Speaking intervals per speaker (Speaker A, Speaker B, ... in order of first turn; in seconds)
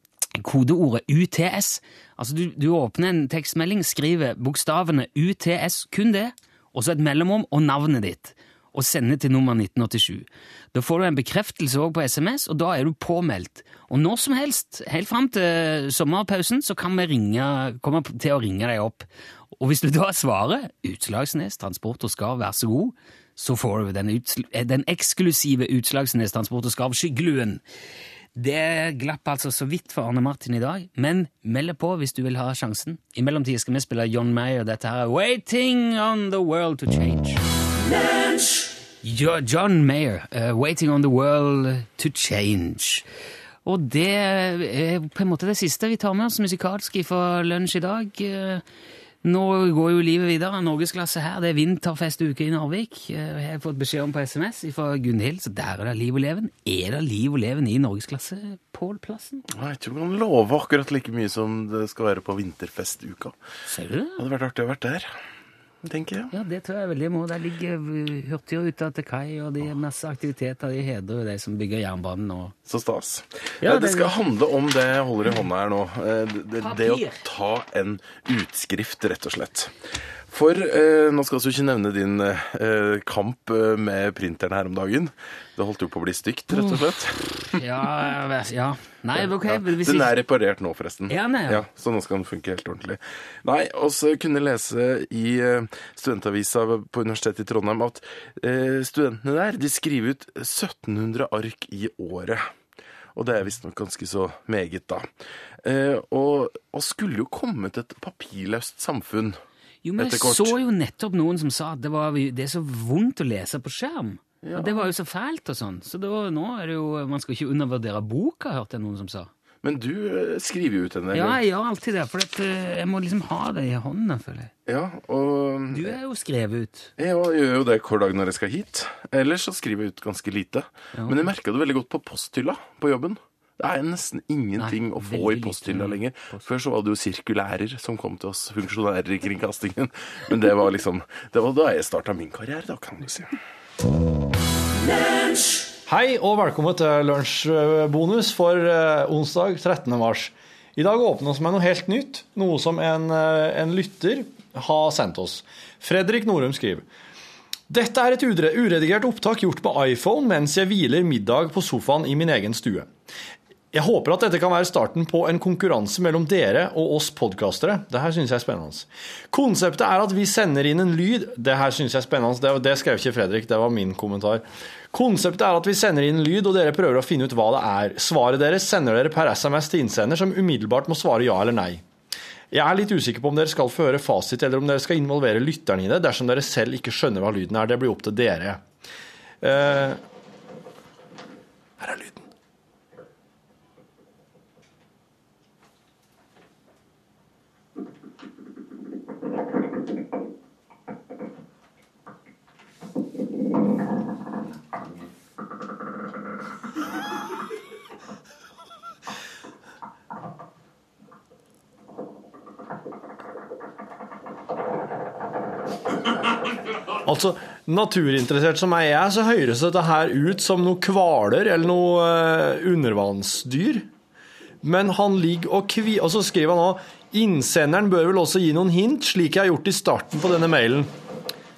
Speaker A: 0.4-19.1, 19.6-27.6, 28.4-37.4, 39.0-43.0, 43.6-48.6, 49.2-59.4, 63.7-64.2, 66.3-72.5, 73.6-74.1, 76.6-77.2, 87.5-90.1, 91.1-91.7, 109.8-119.3, 121.1-124.5, 125.7-126.9, 130.9-131.3, 134.6-136.5
Speaker B: 59.5-63.4, 64.2-65.1, 65.8-66.3, 72.7-79.7, 80.3-87.6, 89.2-102.5, 103.1-105.1, 105.6-109.4, 110.0-110.6, 114.4-114.9, 119.6-121.4, 124.7-125.9, 127.0-143.4
Speaker C: 145.9-156.9, 157.7-162.9, 163.7-181.8, 182.5-188.6, 189.4-190.0, 191.8-192.3, 216.9-223.9, 224.6-230.9